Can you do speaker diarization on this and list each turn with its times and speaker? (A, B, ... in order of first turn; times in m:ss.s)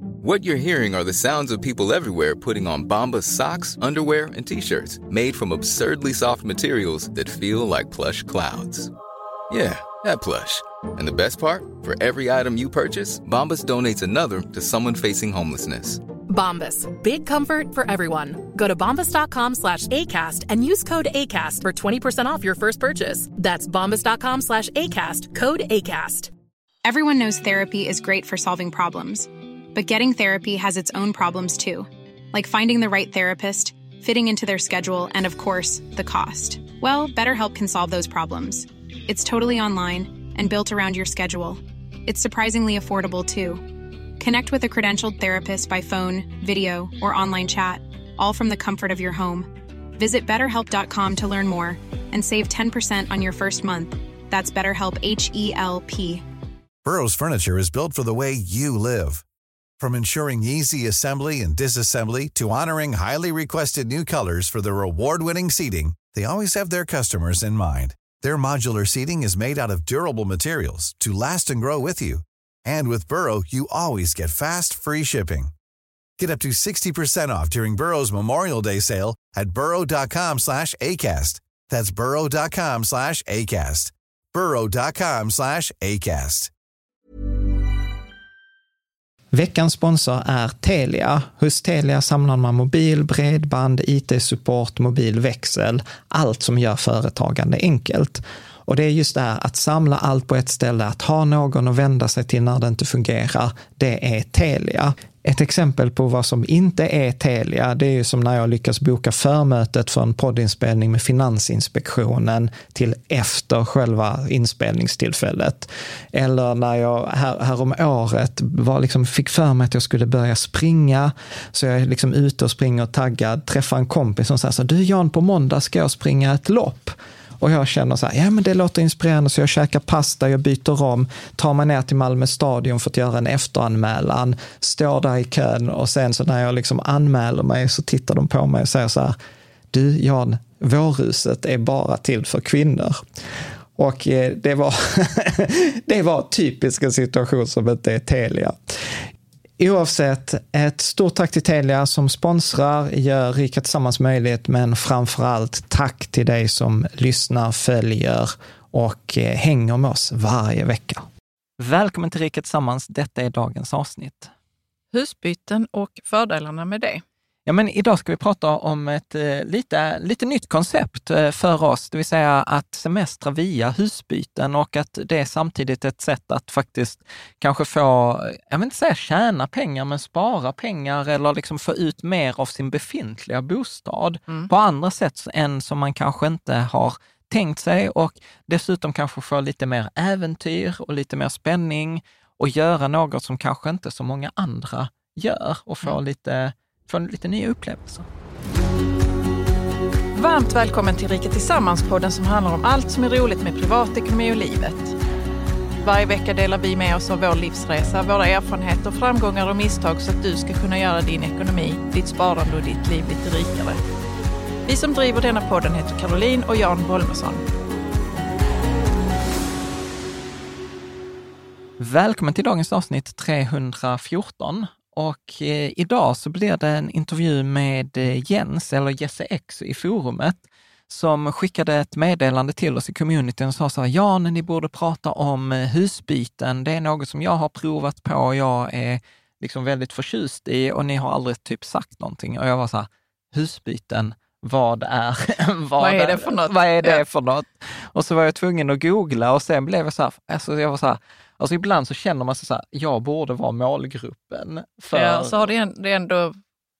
0:00.2-0:08.9 A
0:09.5-0:16.0 A
0:16.3-0:26.3 B
0:26.8-0:43.6 C
0:44.2-0:56.2 C
0:56.8-0:59.2 D
0:59.8-1:15.5 D
1:16.2-1:26.5 D
1:29.3-2:19.2 E
2:19.7-2:23.0 E
2:23.8-2:28.8 E
2:29.6-2:41.1 E
2:41.6-2:44.3 E
2:44.9-2:47.0 F
2:47.4-3:18.1 E
3:20.2-3:24.9 F
3:25.8-3:33.8 F
3:34.6-3:37.4 F
3:41.8-4:15.5 E
4:05.8-4:07.0 F
4:14.9-4:16.4 F